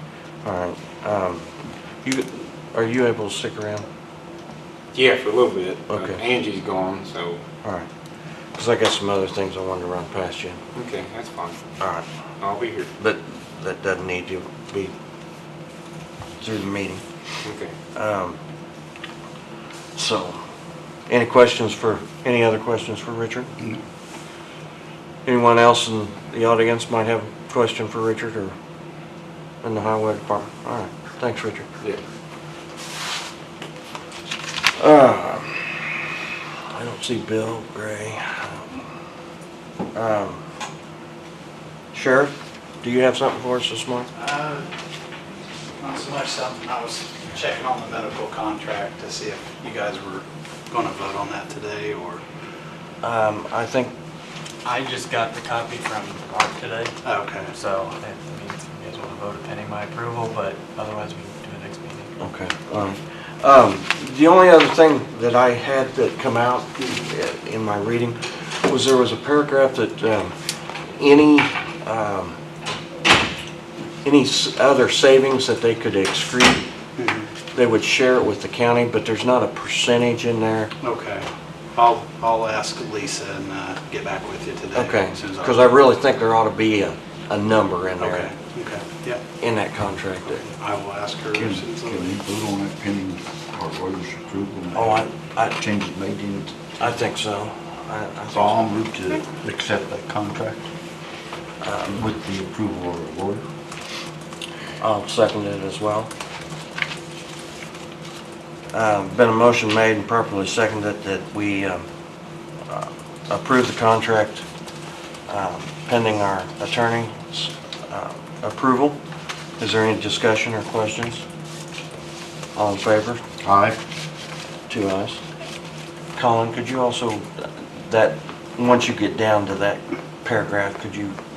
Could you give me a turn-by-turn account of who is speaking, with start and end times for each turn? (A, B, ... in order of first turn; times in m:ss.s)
0:00.4-0:01.5 A
0:02.0-0:03.8 A
0:04.9-0:07.4 B
0:05.9-0:06.2 A
0:08.6-0:10.6 A
0:10.7-0:11.6 B
0:11.8-0:12.0 A
0:12.4-0:12.9 B
0:13.0-0:14.9 A
0:16.4-0:17.0 A
0:17.4-0:17.7 B
0:17.9-0:18.4 A
0:20.0-0:20.4 A
0:21.1-0:23.5 A
0:25.2-0:28.5 A
0:29.6-0:31.7 A
0:34.8-0:35.6 A
0:36.8-0:38.8 A
0:39.9-0:40.4 A
0:41.9-0:44.1 A
0:44.1-0:44.7 C
0:45.8-0:52.2 C
0:53.0-0:53.9 A
0:54.6-0:56.9 D
0:57.0-0:57.5 C
0:57.5-1:02.2 D
1:02.2-1:10.3 A
1:10.9-1:12.4 A
1:14.0-1:16.6 A
1:17.0-1:17.3 C
1:17.5-1:20.7 A
1:20.8-1:25.6 C
1:24.7-1:28.3 A
1:28.0-1:29.2 C
1:29.4-1:30.4 A
1:30.4-1:32.2 C
1:31.3-1:35.0 E
1:34.7-1:35.6 A
1:35.6-1:36.6 E
1:36.8-1:38.9 A
1:38.3-1:40.7 E
1:41.6-1:42.0 A
1:42.0-1:43.4 E
1:44.8-1:46.1 A
1:48.7-1:51.9 A
1:52.7-1:54.4 A
1:55.3-1:59.0 A
1:59.6-2:01.2 A
2:02.6-2:03.2 A
2:03.4-2:03.8 E
2:04.7-2:05.2 A
2:06.1-2:11.2 A